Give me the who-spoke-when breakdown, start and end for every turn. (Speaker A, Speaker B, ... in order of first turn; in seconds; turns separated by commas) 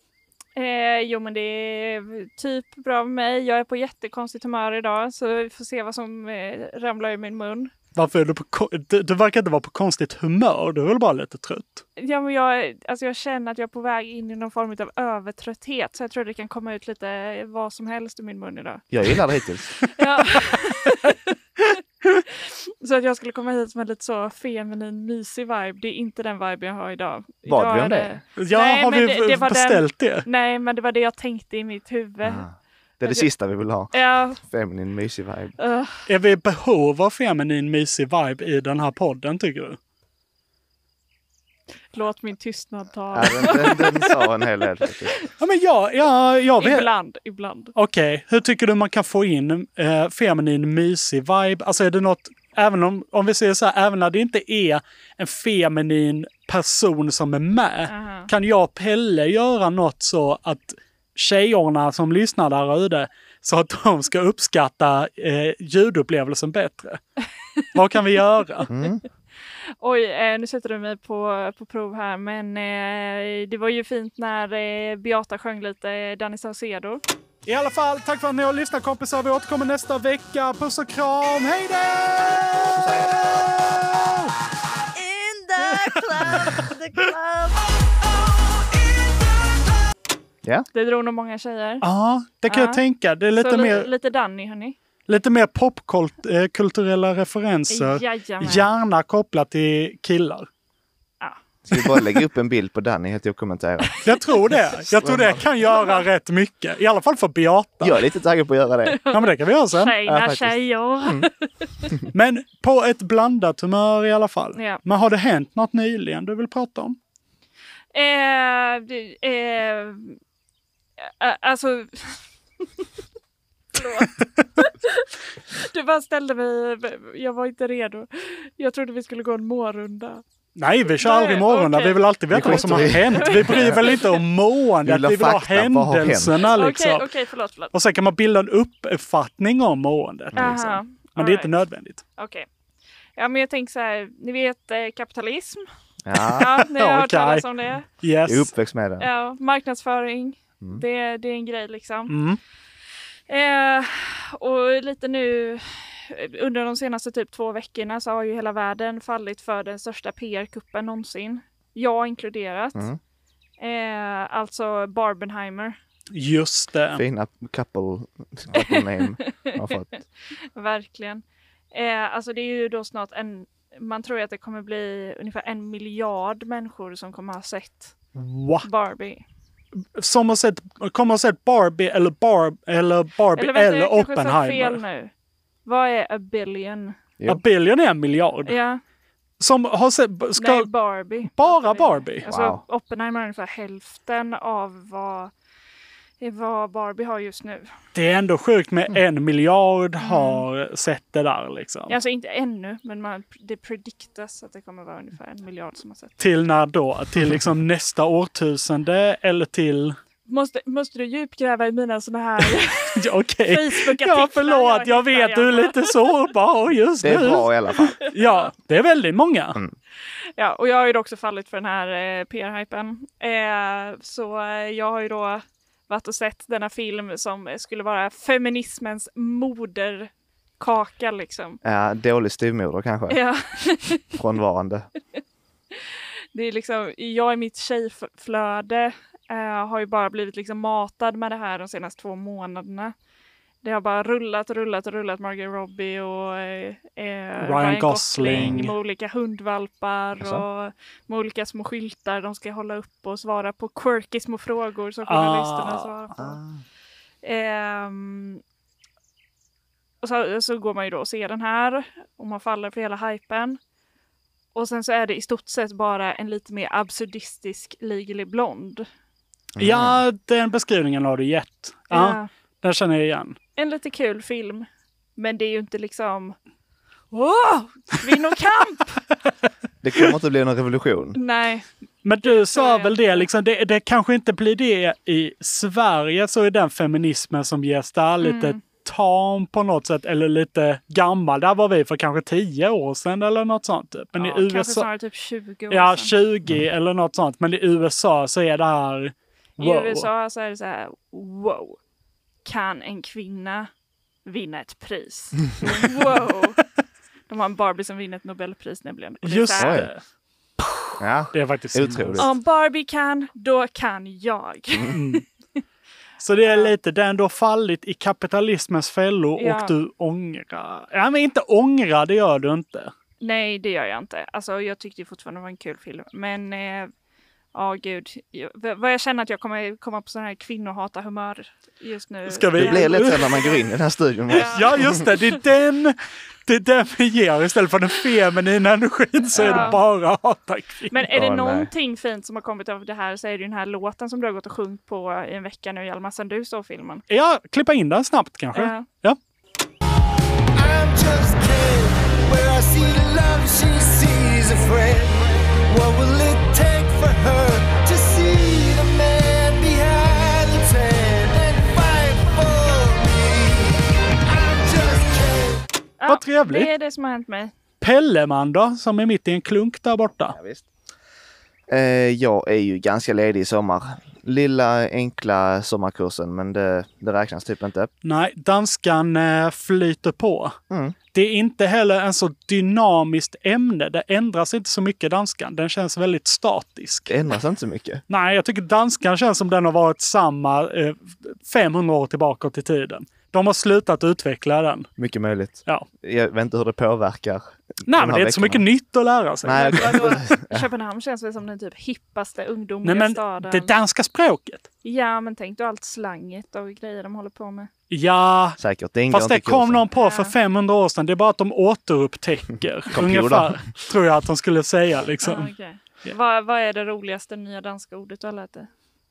Speaker A: 0.6-7.7, Speaker B: 8.0-11.8, Speaker A: 12.0-18.9, Speaker C: 18.9-19.7, Speaker A: 19.9-21.3, Speaker A: 22.3-32.5, Speaker C: 27.5-28.2, Speaker B: 28.4-30.2, Speaker C: 32.2-35.6, Speaker A: 33.9-34.4, Speaker A: 35.6-36.1, Speaker B: 36.1-39.8, Speaker A: 41.9-44.3, Speaker C: 43.1-45.2, Speaker B: 45.4-46.9, Speaker A: 46.6-47.7, Speaker B: 47.8-67.0, Speaker A: 57.9-58.3, Speaker B: 67.7-68.7, Speaker C: 68.7-69.0, Speaker A: 69.8-77.0, Speaker B: 77.5-82.7, Speaker C: 82.8-83.1, Speaker D: 85.0-87.5, Speaker B: 85.7-86.6, Speaker A: 90.7-91.8, Speaker B: 91.8-93.9, Speaker A: 92.5-92.8, Speaker A: 93.3-94.8, Speaker B: 95.1-100.5, Speaker A: 97.7-98.7, Speaker A: 101.2-102.0, Speaker C: 101.7-104.0, Speaker B: 104.0-108.0, Speaker C: 104.9-105.4, Speaker A: 105.7-106.0, Speaker C: 107.8-109.0, Speaker A: 108.9-111.9, Speaker B: 109.1-109.9, Speaker C: 110.0-111.3, Speaker B: 112.1-117.0, Speaker A: 114.6-114.8, Speaker A: 117.9-120.2, Speaker A: 121.0-122.2, Speaker A: 123.7-130.2, Speaker B: 130.6-137.1, Speaker A: 130.9-134.1, Speaker C: 132.3-133.9, Speaker C: 134.8-136.3, Speaker A: 136.5-137.7, Speaker B: 137.7-142.0, Speaker C: 140.3-140.7, Speaker A: 140.4-141.6, Speaker A: 142.2-142.5, Speaker A: 143.2-145.7, Speaker C: 146.1-146.5, Speaker A: 146.4-147.9, Speaker B: 146.4-147.4, Speaker B: 148.0-148.5, Speaker C: 148.3-149.1, Speaker A: 149.0-152.2, Speaker B: 152.1-152.4, Speaker A: 153.3-162.9, Speaker A: 163.6-165.8, Speaker B: 166.1-167.0, Speaker C: 166.9-169.9, Speaker A: 168.5-170.0, Speaker A: 170.6-178.0, Speaker B: 178.2-178.7, Speaker A: 178.6-179.2, Speaker B: 180.0-184.8, Speaker A: 183.3-185.1, Speaker A: 185.7-187.0, Speaker B: 187.3-188.5, Speaker A: 188.5-188.8, Speaker B: 189.4-190.7, Speaker A: 190.4-195.3, Speaker B: 191.3-192.3, Speaker C: 192.3-192.6, Speaker A: 196.2-197.7, Speaker B: 197.9-201.9, Speaker A: 200.0-200.4, Speaker A: 201.9-206.2, Speaker B: 206.2-210.0, Speaker A: 210.3-216.0, Speaker B: 213.0-217.5, Speaker C: 217.0-218.0, Speaker B: 218.1-219.6, Speaker A: 218.2-218.5, Speaker A: 220.4-231.6, Speaker C: 231.6-233.2, Speaker A: 233.1-234.1, Speaker C: 234.1-234.9, Speaker A: 236.3-242.9, Speaker A: 243.6-256.4, Speaker B: 247.4-248.7, Speaker C: 248.3-248.6, Speaker C: 250.2-250.4, Speaker B: 255.1-256.2, Speaker C: 256.2-256.6, Speaker A: 257.2-258.4, Speaker A: 260.0-263.6, Speaker A: 264.5-268.9, Speaker C: 269.6-270.0, Speaker B: 269.6-273.4, Speaker A: 271.9-272.3, Speaker A: 273.6-276.4, Speaker A: 277.1-279.0, Speaker C: 279.8-281.2, Speaker A: 281.1-281.7, Speaker B: 282.0-294.9, Speaker A: 282.2-283.3, Speaker A: 288.2-288.6, Speaker A: 294.2-296.1, Speaker B: 295.7-300.1, Speaker A: 299.6-301.8, Speaker A: 302.4-303.7, Speaker A: 304.3-306.6, Speaker A: 307.3-309.8, Speaker B: 309.2-310.0, Speaker C: 309.6-309.9, Speaker C: 311.0-312.3, Speaker B: 311.3-312.3, Speaker A: 312.2-315.2, Speaker B: 314.9-315.2, Speaker B: 316.2-322.9, Speaker A: 316.4-316.7, Speaker A: 319.4-319.7, Speaker A: 323.2-326.9, Speaker A: 327.5-333.7, Speaker B: 332.3-333.2, Speaker C: 332.6-335.1, Speaker A: 334.3-335.3, Speaker B: 334.5-341.0, Speaker A: 339.4-339.8, Speaker C: 339.4-339.8, Speaker A: 340.9-347.0, Speaker C: 341.1-341.7, Speaker B: 347.1-349.2, Speaker A: 348.6-348.9, Speaker E: 350.6-365.6, Speaker A: 366.0-367.5, Speaker B: 366.1-366.7, Speaker B: 367.8-370.4, Speaker C: 370.3-370.6, Speaker C: 371.7-377.9, Speaker B: 378.0-380.6, Speaker C: 380.7-380.9, Speaker B: 381.1-387.1, Speaker C: 387.1-388.0, Speaker B: 388.1-394.9, Speaker C: 395.0-398.6, Speaker B: 397.9-400.0, Speaker C: 399.4-400.6, Speaker A: 399.7-403.7, Speaker B: 402.9-404.7, Speaker A: 404.8-407.7, Speaker B: 407.9-408.6, Speaker C: 408.6-409.8, Speaker B: 409.1-415.5, Speaker A: 410.0-410.3, Speaker C: 412.9-413.6, Speaker A: 415.2-418.7